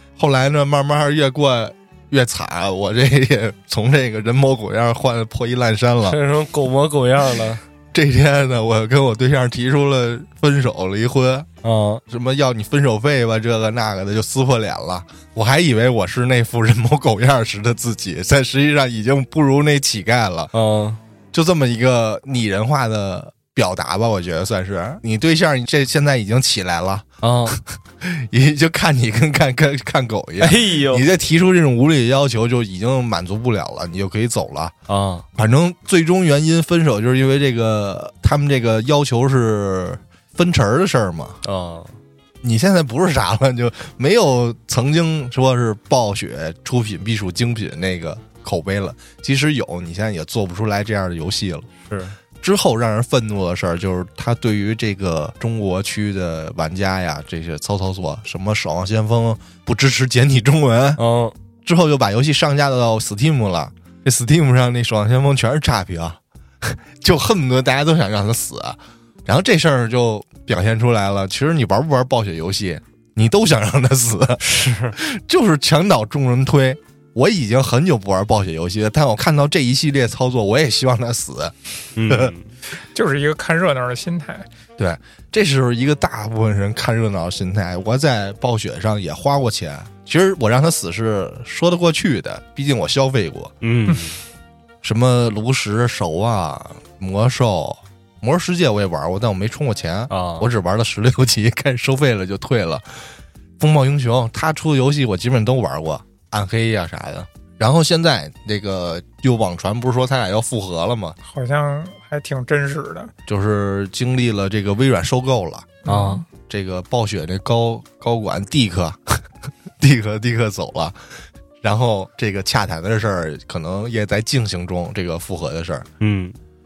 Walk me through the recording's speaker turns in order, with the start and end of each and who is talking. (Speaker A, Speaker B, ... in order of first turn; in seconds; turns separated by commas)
Speaker A: 0.2-6.2, Speaker B: 6.1-7.6, Speaker A: 7.9-11.5, Speaker B: 11.6-12.0, Speaker A: 12.1-20.5, Speaker B: 20.5-21.0, Speaker A: 21.3-34.7, Speaker B: 27.2-27.6, Speaker B: 30.4-31.1, Speaker B: 34.9-35.2, Speaker A: 35.4-41.4, Speaker B: 41.4-41.9, Speaker A: 42.4-51.7, Speaker B: 51.9-52.1, Speaker A: 52.4-61.0, Speaker B: 61.0-61.4, Speaker A: 61.6-81.5, Speaker B: 74.4-75.0, Speaker B: 82.0-82.5, Speaker A: 82.1-82.3, Speaker C: 82.9-84.5, Speaker A: 84.8-93.5, Speaker B: 93.6-94.2, Speaker A: 94.8-111.2, Speaker B: 100.1-100.5, Speaker C: 111.3-113.1, Speaker A: 113.3-115.8, Speaker C: 115.8-116.2, Speaker B: 115.8-116.2, Speaker A: 116.5-119.2, Speaker A: 119.8-121.0, Speaker A: 121.6-125.9, Speaker B: 126.0-126.3